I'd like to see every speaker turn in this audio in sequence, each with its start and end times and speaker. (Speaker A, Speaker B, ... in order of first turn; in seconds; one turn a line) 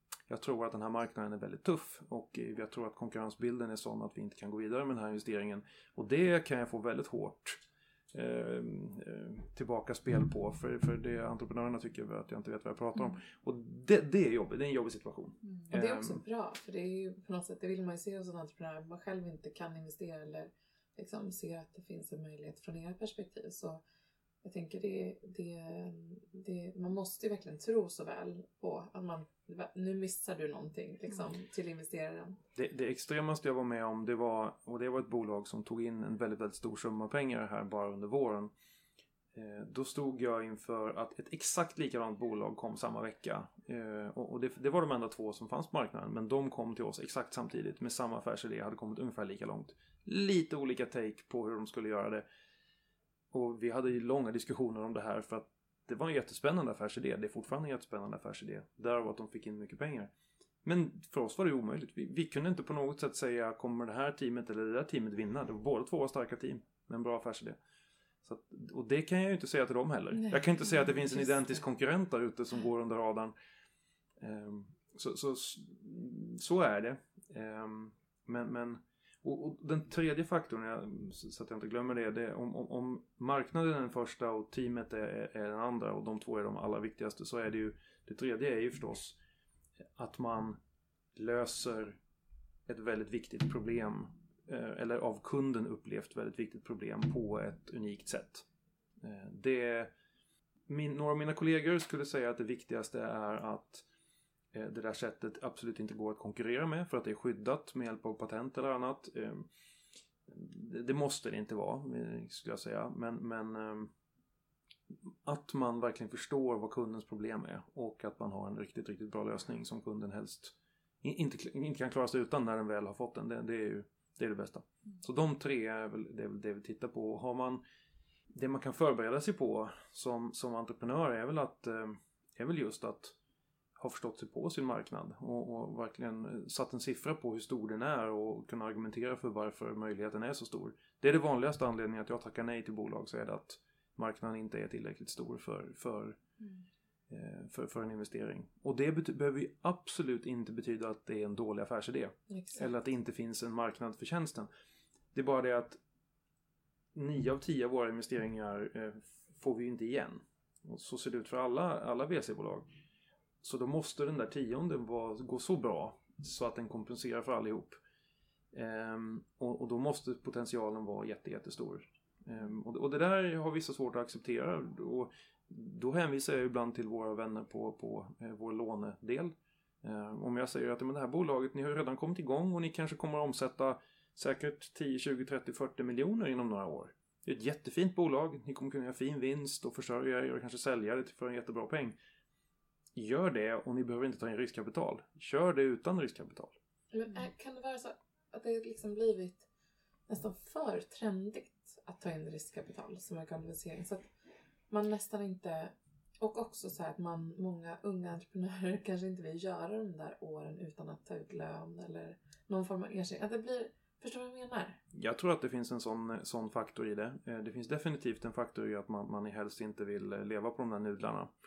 Speaker A: 0.3-7.6
Speaker A: 8.1-16.2
Speaker B: 15.7-23.8
Speaker B: 24.4-32.4
Speaker A: 32.5-38.5
Speaker A: 39.3-52.2
Speaker A: 53.3-60.1
Speaker A: 60.6-67.6
Speaker A: 68.2-73.3
Speaker B: 71.0-71.3
Speaker A: 74.2-89.2
Speaker A: 90.0-90.6
Speaker A: 91.1-92.0
Speaker A: 92.7-98.4
Speaker A: 99.0-99.9
Speaker A: 100.7-103.8
Speaker A: 104.5-109.5
Speaker A: 110.3-113.9
Speaker A: 115.2-127.6
Speaker A: 128.3-133.1
Speaker A: 133.8-146.2
Speaker A: 147.1-154.5
Speaker B: 152.3-152.7
Speaker A: 155.1-155.8
Speaker A: 156.9-162.7
Speaker A: 163.4-167.8
Speaker A: 168.5-191.9
Speaker A: 192.9-196.6
Speaker B: 196.9-199.4
Speaker B: 200.1-204.1
Speaker B: 204.7-214.8
Speaker A: 214.9-221.3